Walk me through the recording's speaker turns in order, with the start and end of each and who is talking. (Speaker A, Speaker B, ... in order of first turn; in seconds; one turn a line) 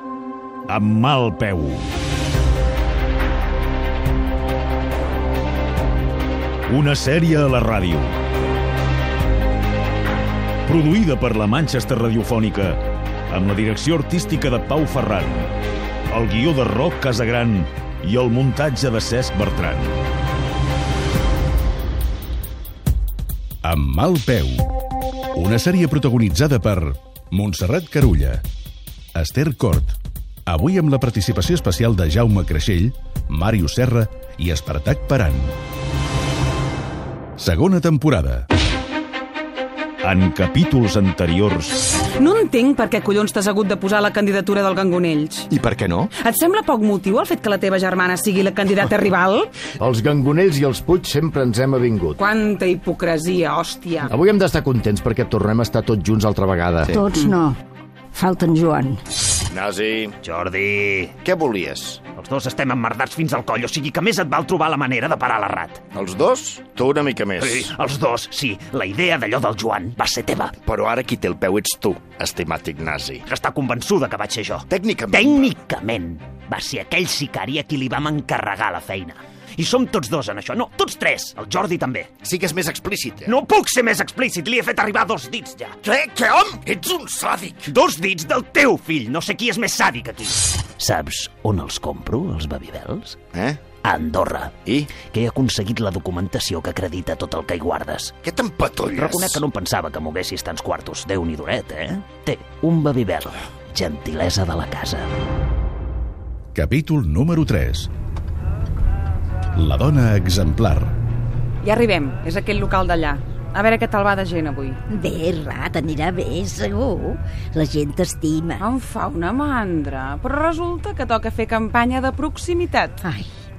Speaker A: 0.7-1.9
Speaker A: 6.7-8.1
Speaker A: 10.7-12.8
Speaker A: 13.3-15.5
Speaker A: 16.1-20.0
Speaker B: 23.6-24.7
Speaker B: 25.4-28.4
Speaker B: 29.1-30.0
Speaker B: 30.5-35.5
Speaker B: 37.4-38.5
Speaker A: 40.0-41.8
Speaker C: 42.2-45.5
Speaker D: 45.5-46.1
Speaker C: 46.2-49.5
Speaker D: 49.8-52.2
Speaker C: 52.2-54.1
Speaker D: 54.1-57.0
Speaker E: 56.9-57.6
Speaker E: 58.1-59.0
Speaker F: 59.5-60.1
Speaker G: 60.2-61.2
Speaker F: 61.3-62.0
Speaker G: 62.1-65.8
Speaker F: 66.0-67.7
Speaker G: 67.4-70.6
Speaker F: 70.7-73.2
Speaker G: 73.3-82.1
Speaker F: 74.7-75.5
Speaker F: 82.2-83.3
Speaker G: 83.3-86.3
Speaker F: 86.4-87.6
Speaker G: 87.7-93.2
Speaker G: 93.8-98.2
Speaker F: 98.2-99.4
Speaker G: 98.9-105.1
Speaker B: 106.5-107.9
Speaker B: 109.5-110.9
Speaker C: 111.6-114.8
Speaker E: 114.9-118.6
Speaker C: 118.6-123.0
Speaker E: 123.0-123.3